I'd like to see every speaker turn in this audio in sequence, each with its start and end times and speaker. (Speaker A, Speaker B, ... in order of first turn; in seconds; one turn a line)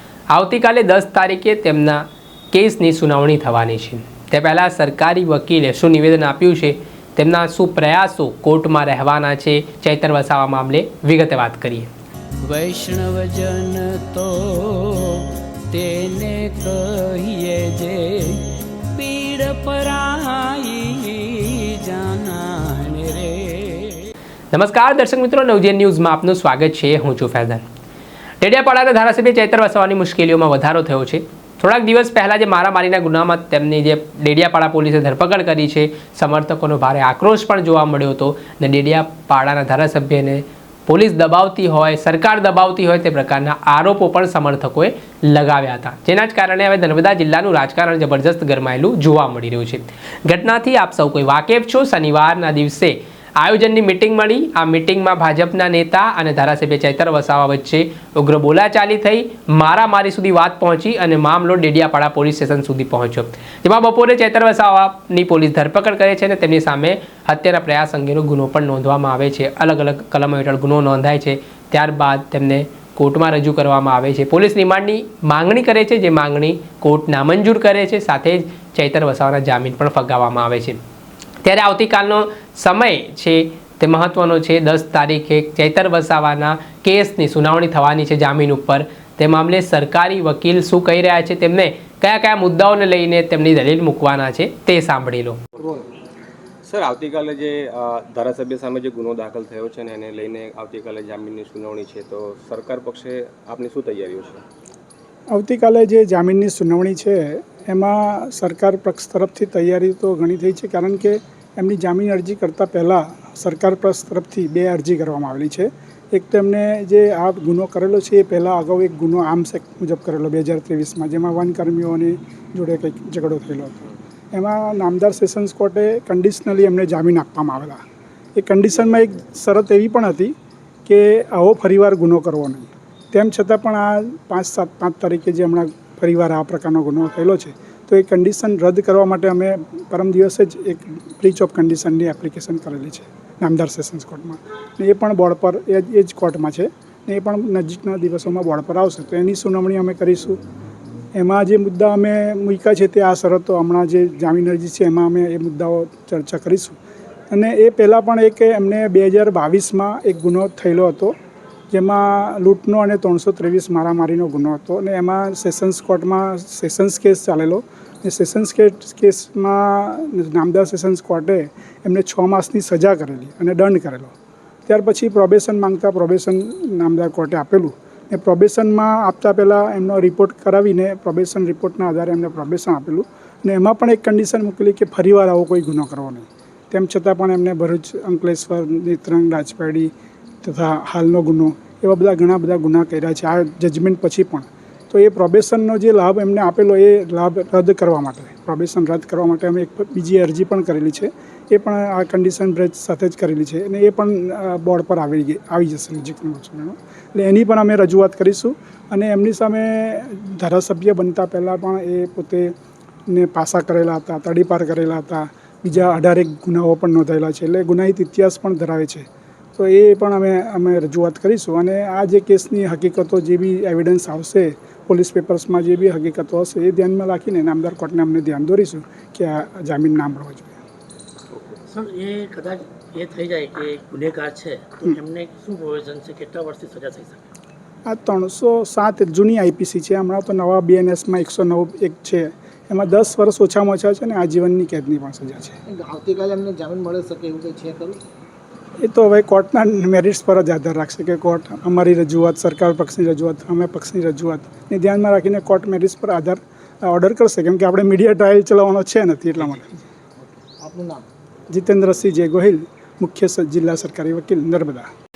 Speaker A: 0.3-11.9
Speaker B: 12.4-24.1
Speaker A: 24.5-27.6
Speaker A: 28.4-80.8
Speaker A: 81.4-95.4
Speaker C: 96.7-104.4
Speaker D: 105.3-127.8
Speaker D: 128.4-130.3
Speaker D: 130.9-150.4
Speaker D: 151.2-156.8
Speaker D: 157.3-161.2
Speaker D: 161.7-174.2
Speaker D: 174.7-189.9
Speaker D: 190.4-212.5
Speaker D: 213.1-230.6
Speaker E: 231.7-237.2
Speaker D: 237.9-245.6
Speaker F: 245.7-248.0
Speaker D: 248.8-259.7
Speaker F: 260.2-261.0
Speaker D: 261.5-264.9